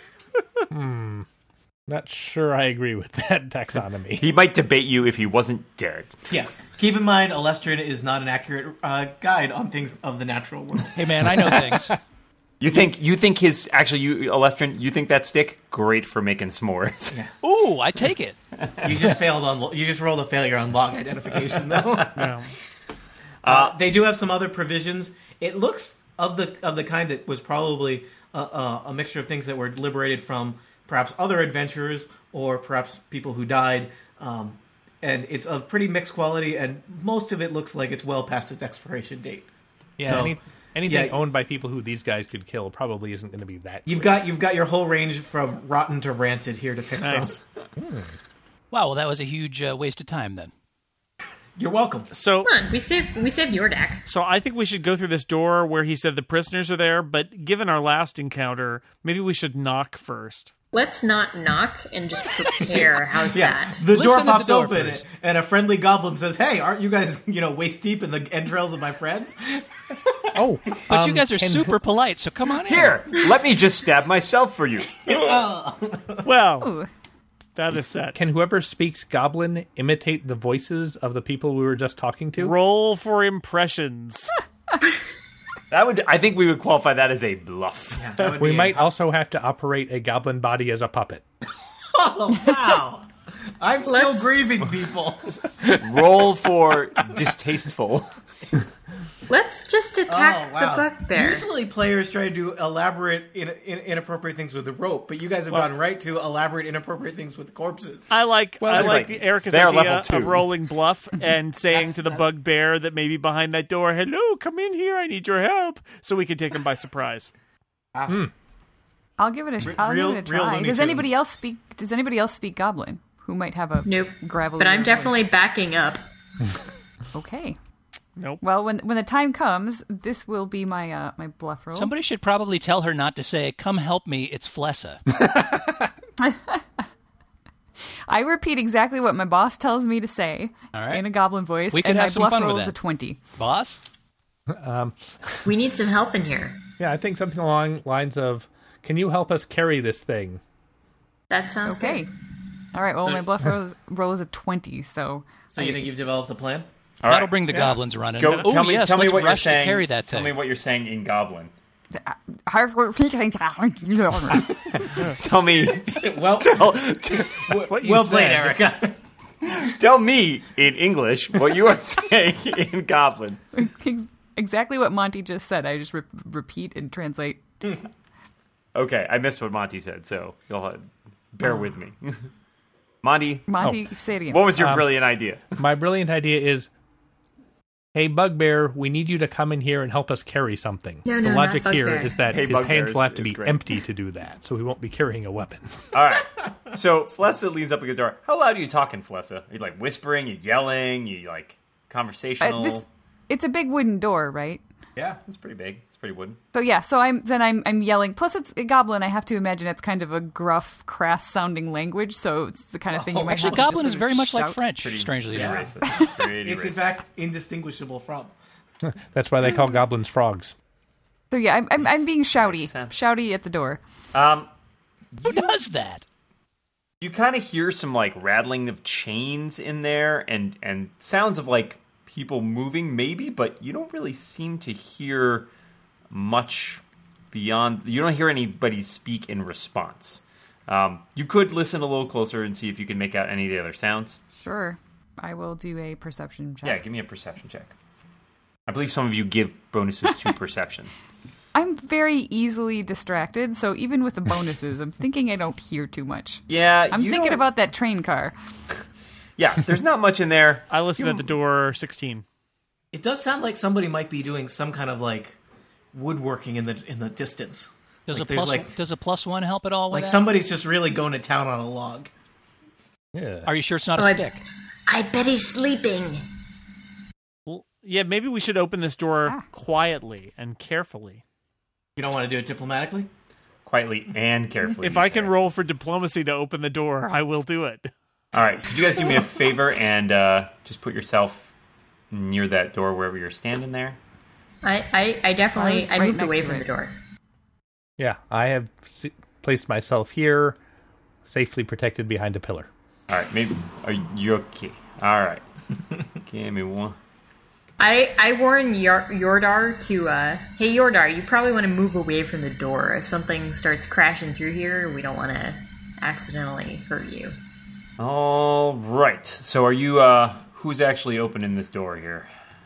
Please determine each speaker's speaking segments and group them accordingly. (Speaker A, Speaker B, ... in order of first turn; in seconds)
Speaker A: 0.7-1.2, 1.9-4.3, 40.0-44.2, 47.8-48.1, 70.3-71.8, 78.1-82.5, 88.4-91.2, 108.6-109.0, 135.2-135.8, 144.5-145.0, 146.8-150.4, 167.7-168.6, 184.5-184.9, 185.5-186.7, 187.9-195.8, 218.8-220.5, 273.1-273.5, 298.0-300.6, 301.2-302.7
Speaker B: 4.2-6.1, 12.6-17.2, 23.4-23.7, 72.6-75.4, 85.7-88.2, 95.7-98.1, 108.7-110.5, 157.0-161.5, 164.3-167.6, 169.5-173.4, 178.7-182.3, 183.0-183.5, 184.3-185.4, 192.3-193.6, 195.9-202.8, 205.2-206.4, 214.8-217.0, 222.3-223.0, 224.1-224.5, 227.0-235.5, 236.1-244.2, 246.6-247.7, 248.7-250.9, 256.5-257.4, 259.4-261.3, 283.6-285.3, 288.3-291.5, 292.1-294.0, 303.1-305.4, 306.2-306.9, 318.0-322.3
Speaker C: 6.3-11.3, 18.8-22.3, 23.4-39.5, 40.0-41.2, 43.9-47.4, 51.6-52.1, 62.6-70.4, 75.0-76.3, 88.0-88.9, 91.9-95.9, 100.1-108.1, 111.7-112.3, 117.9-118.3, 119.6-121.2, 155.5-156.7, 157.5-157.8, 165.9-169.0, 212.9-214.0, 215.3-218.3, 262.9-265.4, 265.9-268.8, 269.9-272.1, 282.0-283.1
Speaker D: 10.9-11.9, 17.4-18.4, 48.7-50.5, 63.9-65.1, 70.9-73.0, 131.7-135.0, 140.7-141.1, 141.7-142.7, 143.3-143.8, 157.1-160.4, 213.3-215.6, 225.2-226.0, 268.1-270.3, 273.4-274.4
Speaker E: 22.1-22.5, 47.0-47.4, 52.1-52.5, 54.0-60.5, 76.2-76.7, 77.5-78.2, 82.4-84.3, 108.1-117.3, 128.2-128.4, 260.7-262.2, 277.4-281.2, 284.8-287.9
Speaker F: 52.4-54.0, 60.7-63.8, 93.8-94.5, 99.3-101.5, 123.8-126.0, 145.4-146.6, 151.3-152.1, 191.0-192.3, 273.9-274.3, 274.9-276.3, 294.6-297.0, 307.8-317.4
Speaker G: 76.6-76.9, 119.2-125.2, 127.1-127.6, 128.4-131.9, 136.2-136.6, 138.1-143.2, 151.6-152.1, 152.7-155.3, 161.9-164.6, 173.5-177.7, 183.5-184.5, 202.4-204.6, 206.5-214.6, 221.3-223.8, 244.3-246.8, 251.5-258.3, 295.5-296.7